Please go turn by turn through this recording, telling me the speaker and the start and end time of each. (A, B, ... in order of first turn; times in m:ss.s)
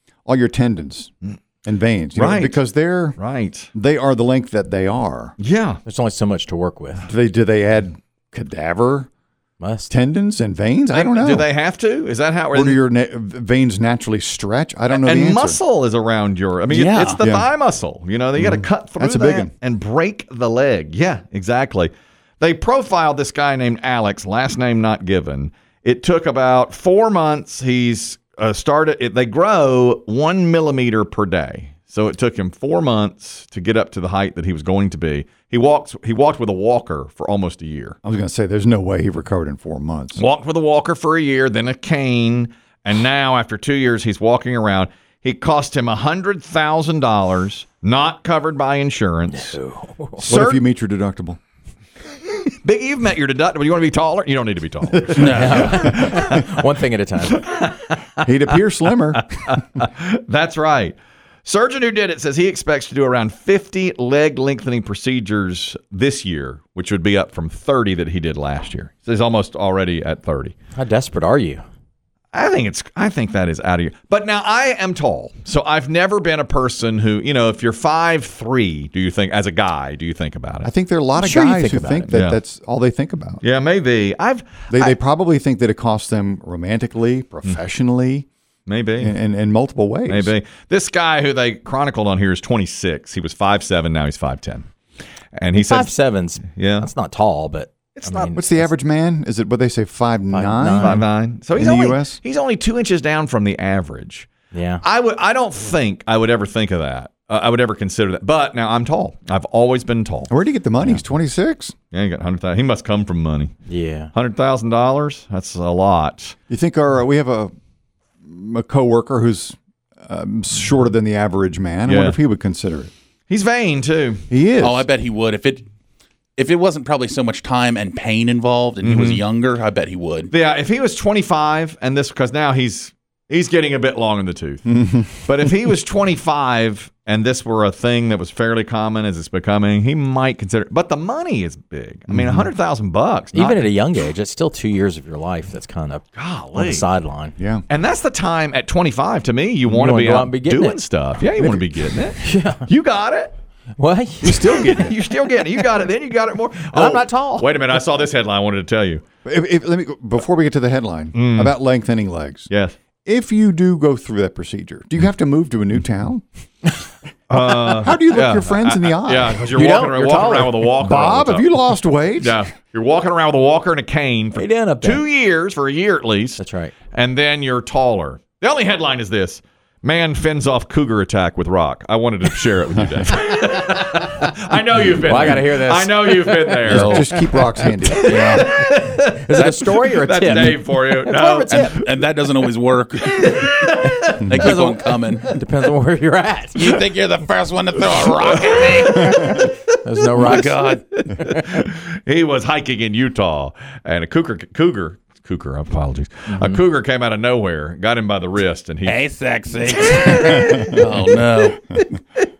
0:00.2-0:03.2 A
0:02.1-0:02.6 B
0:03.2-0:03.7 B
0:03.7-0:05.3 A
0:05.4-0:05.8 B
0:05.8-0:07.1 C
0:07.1-0:09.1 A
0:09.6-0:09.9 C
0:09.9-0:11.5 A
0:10.9-0:12.8 B
0:12.5-0:15.6 A
0:14.9-0:38.0 B
0:16.7-0:17.2 D
0:17.2-0:17.5 A
0:18.4-0:19.5 A
0:38.0-0:40.2 A
0:40.1-0:49.6 B
0:49.4-0:50.2 C
0:50.2-0:50.6 B
0:50.2-0:51.4 A
0:52.6-0:56.4 B
0:55.2-0:55.8 D
0:55.2-0:57.4 C
0:57.3-0:58.2 B
0:58.2-0:59.2 A
0:59.1-1:10.5 B
1:10.8-1:11.6 C
1:12.3-1:20.7 B
1:20.6-1:23.4 A
1:21.2-1:22.1 C
1:22.1-1:22.4 B
1:23.4-1:25.0 B
1:24.7-1:28.3 A
1:28.7-1:29.1 B
1:29.0-1:30.3 A
1:30.1-1:34.7 B
1:35.3-1:36.9 B
1:35.5-1:38.7 C
1:38.0-1:38.3 B
1:38.3-1:42.2 A
1:40.3-1:41.0 C
1:40.8-1:44.3 B
1:44.5-1:44.8 C
1:44.8-1:50.3 B
1:50.3-1:51.7 A
1:51.9-1:53.6 B
1:53.7-1:54.1 C
1:54.1-1:56.3 B
1:56.5-1:57.5 A
1:58.2-2:02.9 A
2:01.8-2:02.2 B
2:03.3-2:04.2 B
2:04.3-2:04.9 A
2:04.6-2:05.7 D
2:06.4-2:10.3 D
2:08.8-2:09.2 B
2:10.3-2:23.7 B
2:14.6-2:15.2 A
2:22.1-2:22.5 A
2:23.3-2:27.3 C
2:26.2-2:26.9 B
2:27.4-2:27.6 A
2:27.7-2:33.3 B
2:29.7-2:30.8 C
2:32.2-2:32.6 C
2:33.8-2:35.7 C
2:34.2-2:39.0 B
2:36.7-2:37.7 C
2:39.2-2:42.5 A
2:41.1-2:41.6 B
2:42.5-2:42.8 B
2:43.0-2:46.2 A
2:47.3-2:51.5 B
2:47.6-2:49.5 A
2:49.5-2:50.7 C
2:50.8-2:52.4 A
2:52.2-3:07.1 B
2:54.3-2:55.0 C
2:56.4-2:56.7 C
3:02.8-3:03.1 A
3:04.8-3:11.9 C
3:06.7-3:07.1 D
3:06.7-3:08.2 A
3:07.8-3:11.9 B
3:08.0-3:08.5 D
3:09.4-3:09.6 D
3:11.5-3:13.6 D
3:13.0-3:14.3 B
3:13.8-3:16.8 C
3:14.2-3:15.3 D
3:16.5-3:19.4 D
3:18.2-3:19.5 B
3:18.9-3:21.4 C
3:20.1-3:20.8 D
3:21.0-3:29.0 B
3:26.3-3:26.6 C
3:28.8-3:30.1 D
3:29.7-3:30.5 C
3:29.8-3:32.2 B
3:30.7-3:31.8 D